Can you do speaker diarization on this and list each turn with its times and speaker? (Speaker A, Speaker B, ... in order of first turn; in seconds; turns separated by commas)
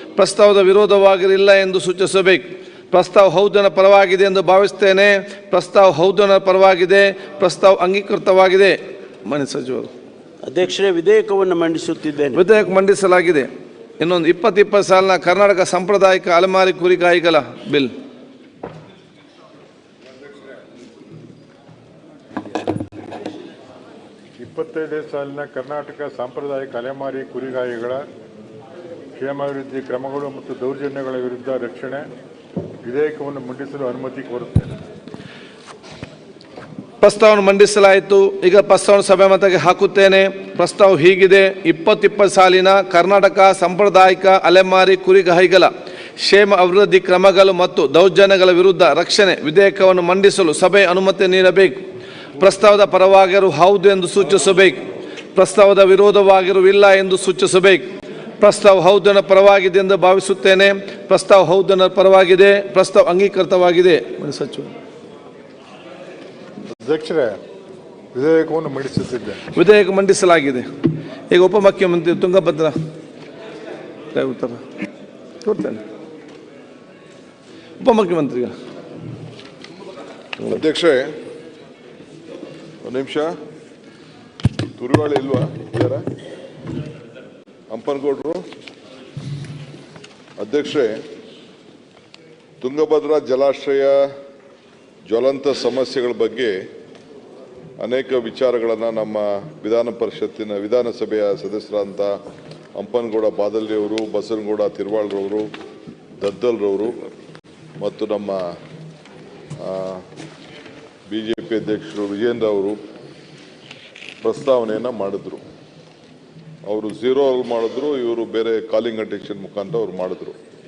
Speaker A: 0.2-9.9, Speaker B: 10.4-12.4, Speaker A: 12.3-13.5, Speaker A: 14.0-17.9, Speaker C: 24.4-28.0, Speaker C: 29.2-32.1, Speaker C: 32.8-34.7, Speaker A: 37.0-45.7, Speaker A: 46.2-51.8, Speaker A: 52.4-54.8, Speaker A: 55.4-57.8, Speaker A: 58.4-64.7, Speaker C: 66.8-67.4, Speaker C: 68.1-69.4, Speaker A: 69.5-70.7, Speaker A: 71.3-72.7, Speaker A: 74.1-74.6, Speaker A: 75.4-75.8, Speaker A: 77.8-78.5, Speaker D: 80.4-81.1, Speaker D: 82.8-83.3, Speaker D: 84.8-86.0, Speaker D: 87.7-88.4, Speaker D: 90.4-91.0, Speaker D: 92.6-94.0, Speaker D: 95.1-96.5, Speaker D: 97.8-102.1, Speaker D: 102.8-105.5, Speaker D: 106.2-107.1, Speaker D: 107.8-108.4, Speaker D: 109.6-110.0, Speaker D: 111.1-112.8, Speaker D: 114.2-115.4, Speaker D: 116.7-120.3